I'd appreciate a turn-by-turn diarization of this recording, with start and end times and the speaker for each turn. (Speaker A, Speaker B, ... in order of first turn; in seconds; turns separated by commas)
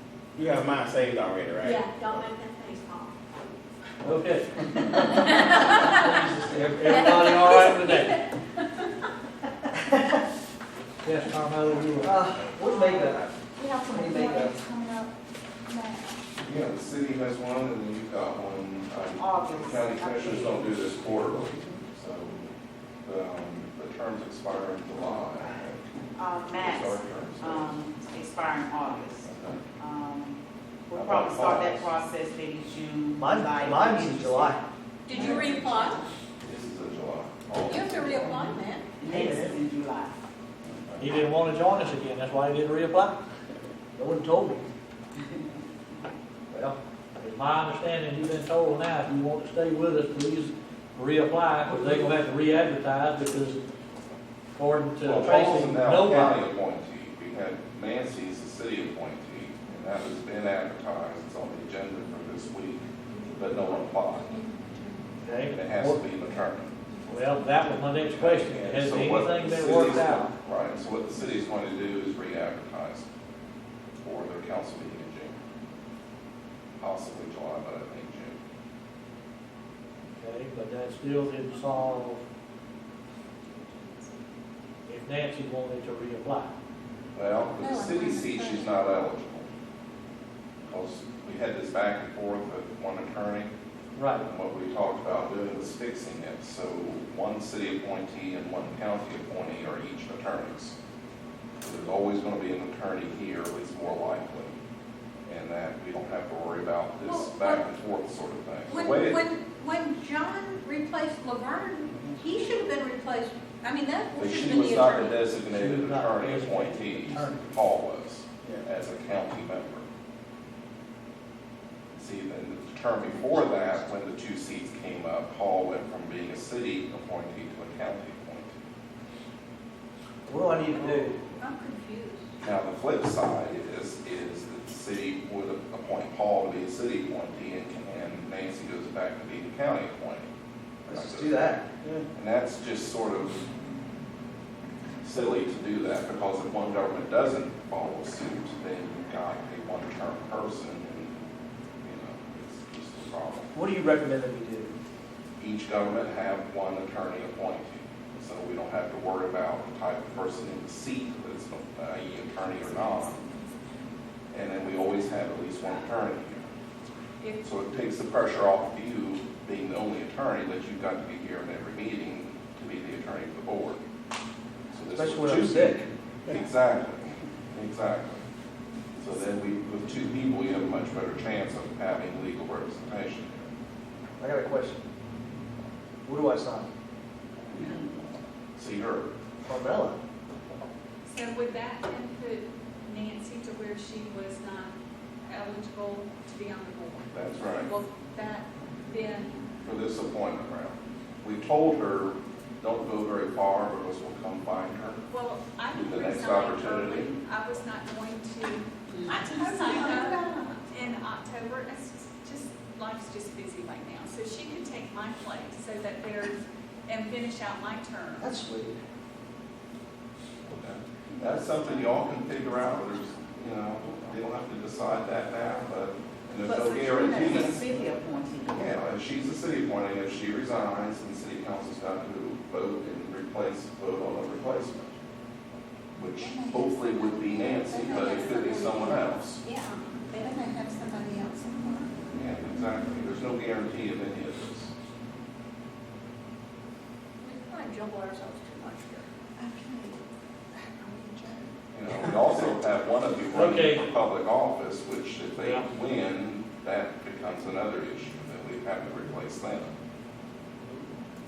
Speaker A: 0.3-2.3, Speaker B: 1.6-3.1, Speaker C: 4.0-8.2, Speaker B: 6.8-8.2, Speaker D: 9.9-10.2, Speaker C: 11.0-12.2, Speaker D: 12.0-14.6, Speaker E: 12.6-15.1, Speaker E: 15.7-16.1, Speaker F: 16.4-22.5, Speaker G: 19.1-21.2, Speaker F: 23.0-25.9, Speaker G: 26.1-30.4, Speaker F: 26.5-27.7, Speaker F: 29.2-29.6, Speaker G: 30.9-34.6, Speaker F: 30.9-31.9, Speaker D: 33.2-34.6, Speaker E: 35.1-36.0, Speaker G: 35.2-36.0, Speaker F: 36.4-38.4, Speaker E: 37.6-38.9, Speaker G: 39.0-40.1, Speaker D: 39.0-39.5, Speaker F: 40.6-41.2, Speaker C: 41.0-43.2, Speaker D: 44.0-44.6, Speaker C: 47.2-53.6, Speaker C: 54.5-56.4, Speaker F: 55.0-64.3, Speaker E: 63.1-65.1, Speaker C: 65.2-66.0, Speaker F: 65.5-66.7, Speaker E: 66.9-67.5, Speaker C: 67.1-70.3, Speaker F: 68.1-73.0, Speaker F: 74.0-75.3, Speaker F: 76.8-78.4, Speaker C: 80.1-82.2, Speaker C: 84.9-86.5, Speaker F: 87.1-89.5, Speaker E: 87.5-88.8, Speaker F: 90.7-93.5, Speaker C: 94.0-94.3, Speaker F: 94.2-100.7, Speaker F: 101.6-104.5, Speaker F: 105.3-109.2, Speaker E: 107.0-107.6, Speaker E: 108.7-115.2, Speaker F: 114.2-119.8, Speaker C: 115.5-117.5, Speaker F: 122.0-128.5, Speaker E: 123.1-123.8, Speaker D: 130.2-131.2, Speaker E: 131.4-132.3, Speaker F: 132.4-140.3, Speaker D: 140.9-141.7, Speaker F: 140.9-141.6, Speaker F: 142.1-143.4, Speaker F: 145.0-151.1, Speaker F: 151.8-153.5, Speaker D: 153.5-154.7, Speaker F: 155.4-163.2, Speaker F: 164.3-166.5, Speaker F: 167.4-173.8, Speaker F: 174.7-178.2, Speaker D: 174.9-175.9, Speaker F: 178.9-183.5, Speaker D: 184.2-184.8, Speaker D: 186.0-186.7, Speaker H: 187.5-187.8, Speaker F: 188.6-189.1, Speaker D: 189.4-190.0, Speaker H: 191.0-194.7, Speaker H: 195.2-199.4, Speaker F: 197.1-197.7, Speaker F: 199.6-205.0, Speaker H: 205.1-218.3, Speaker F: 205.7-207.1, Speaker E: 209.3-210.7, Speaker D: 218.2-218.8, Speaker F: 220.5-227.7, Speaker G: 226.4-228.8, Speaker F: 228.5-234.9, Speaker F: 236.0-239.4, Speaker E: 236.2-241.9, Speaker F: 242.1-244.7, Speaker E: 247.2-250.0, Speaker E: 250.8-251.5, Speaker F: 251.7-259.7, Speaker C: 253.3-253.9, Speaker C: 255.3-255.7